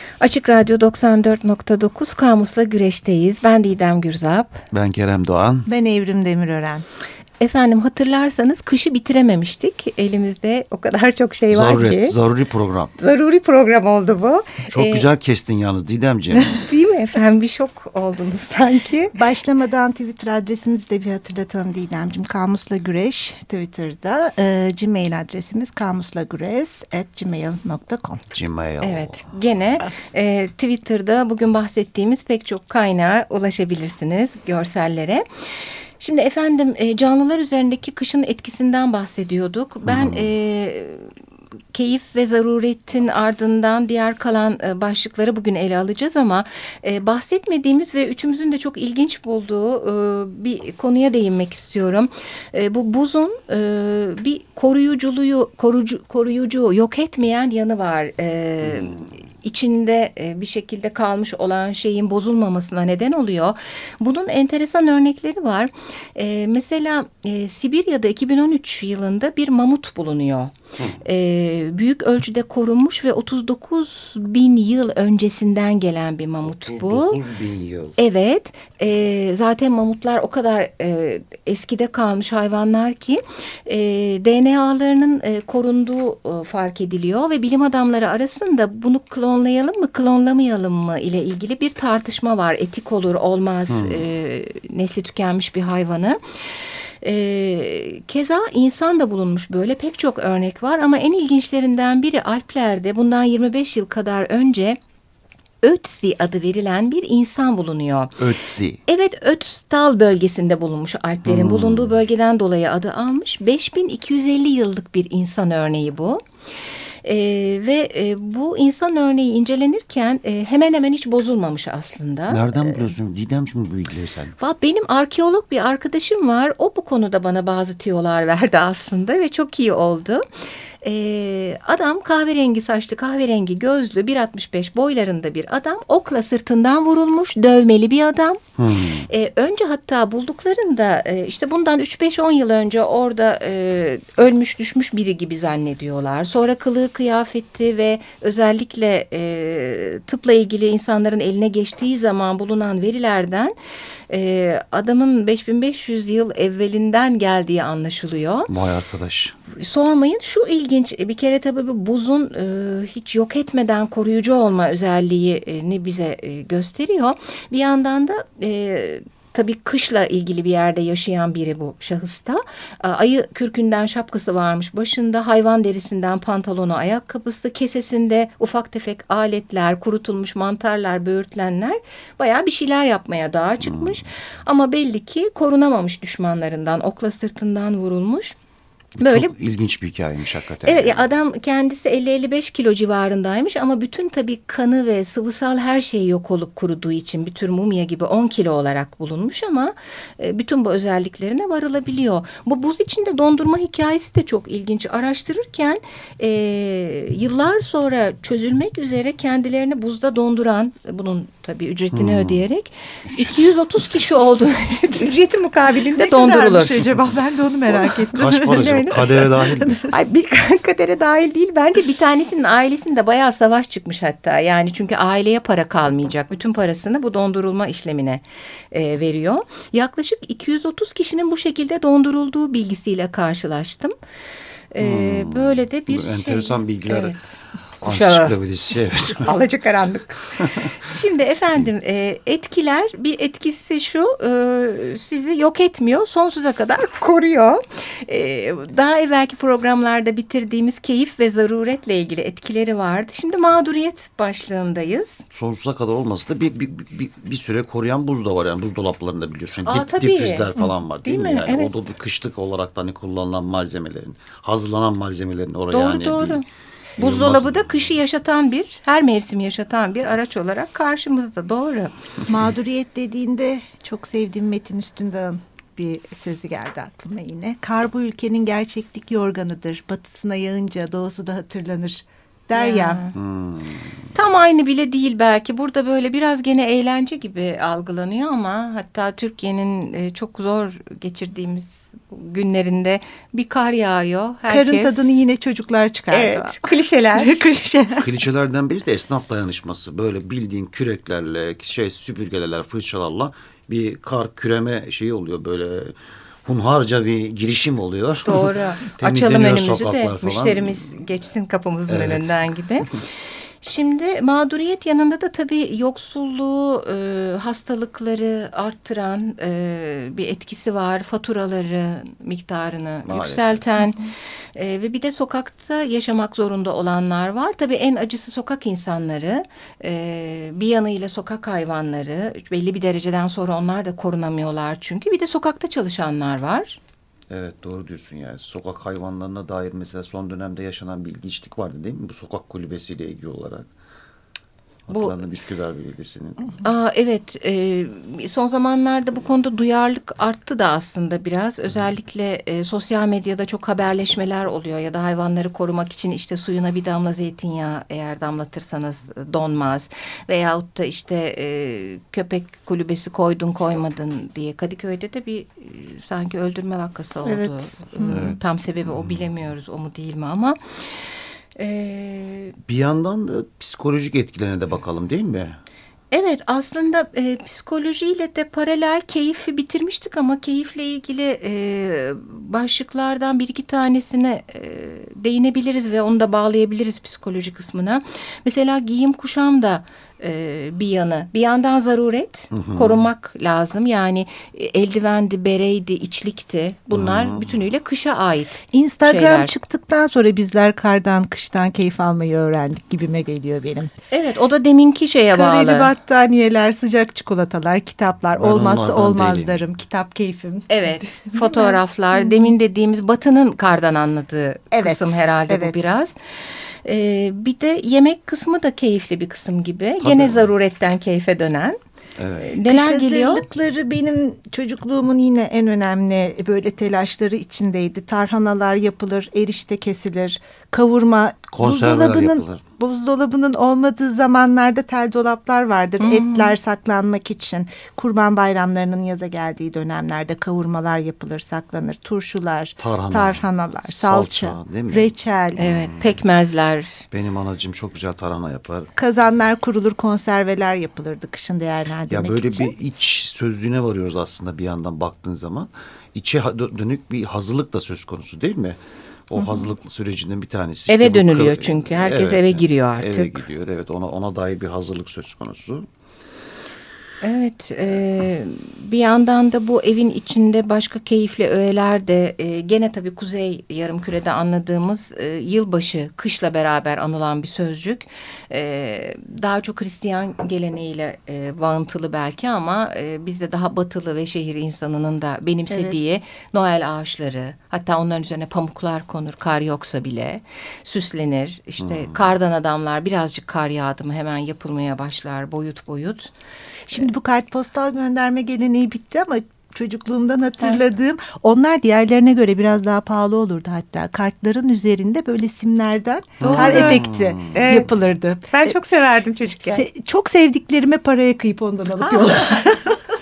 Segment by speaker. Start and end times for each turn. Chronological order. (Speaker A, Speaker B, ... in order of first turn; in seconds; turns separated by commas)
Speaker A: 0.2-4.6, Speaker B: 4.7-5.7, Speaker C: 5.7-6.8, Speaker A: 7.4-12.2, Speaker B: 11.5-12.9, Speaker A: 13.0-15.0, Speaker B: 14.7-16.6, Speaker A: 16.3-19.2, Speaker C: 19.1-28.2, Speaker B: 28.3-29.3, Speaker A: 28.8-35.2, Speaker A: 36.0-41.1, Speaker B: 39.9-40.3, Speaker A: 41.7-77.2, Speaker B: 58.7-59.0, Speaker B: 76.6-78.0, Speaker A: 78.0-96.2, Speaker B: 93.7-94.1, Speaker A: 97.0-104.8, Speaker A: 105.6-108.2, Speaker B: 108.2-108.8, Speaker A: 108.9-116.2, Speaker B: 111.2-111.9, Speaker A: 117.0-122.9, Speaker B: 122.3-124.3, Speaker A: 124.4-130.2, Speaker A: 130.8-138.4, Speaker B: 138.6-139.1, Speaker A: 139.0-153.5, Speaker A: 154.1-158.5, Speaker B: 158.5-159.4, Speaker A: 159.5-188.3, Speaker B: 183.6-184.0, Speaker B: 189.0-191.1, Speaker A: 189.0-189.3, Speaker A: 190.6-217.0, Speaker B: 211.9-212.4, Speaker B: 213.1-213.5, Speaker C: 215.6-220.0, Speaker B: 217.8-219.8, Speaker A: 219.9-233.9, Speaker A: 234.7-238.3, Speaker B: 234.8-237.2, Speaker B: 237.8-239.3, Speaker A: 239.1-255.2, Speaker B: 240.4-240.7, Speaker B: 255.3-266.4, Speaker A: 259.6-261.7, Speaker A: 265.7-266.4, Speaker B: 267.0-267.9, Speaker A: 267.0-271.9, Speaker C: 272.3-283.0, Speaker A: 282.5-283.2, Speaker B: 283.1-284.1, Speaker A: 284.1-295.2, Speaker C: 294.5-298.1, Speaker A: 296.1-297.4, Speaker B: 298.0-310.9, Speaker A: 308.2-313.0, Speaker B: 311.9-312.4, Speaker A: 313.6-336.8, Speaker B: 323.0-323.6, Speaker B: 337.3-343.7, Speaker B: 344.9-346.6, Speaker A: 344.9-345.2, Speaker A: 346.6-370.6, Speaker C: 367.2-368.2, Speaker B: 368.1-369.2, Speaker A: 371.6-372.6, Speaker B: 372.6-375.6, Speaker A: 376.1-399.5, Speaker B: 392.5-393.0, Speaker B: 396.9-397.6, Speaker C: 398.7-403.9, Speaker A: 404.1-405.9, Speaker C: 405.3-412.5, Speaker B: 408.4-409.6, Speaker A: 410.7-416.1, Speaker C: 414.7-415.8, Speaker A: 416.8-421.8, Speaker B: 420.0-420.5, Speaker B: 422.2-422.6, Speaker A: 422.4-423.4, Speaker C: 422.6-445.6, Speaker B: 431.5-432.6, Speaker A: 436.0-436.5, Speaker B: 442.8-446.2, Speaker A: 445.6-447.0, Speaker B: 447.1-448.9, Speaker C: 448.9-452.7, Speaker B: 452.1-458.8, Speaker B: 459.3-465.9, Speaker A: 460.9-463.4, Speaker A: 467.2-496.3, Speaker C: 485.7-486.0, Speaker B: 491.8-492.3, Speaker C: 496.9-508.8, Speaker B: 506.4-507.8, Speaker A: 506.4-507.9, Speaker A: 508.5-509.9, Speaker C: 509.6-513.0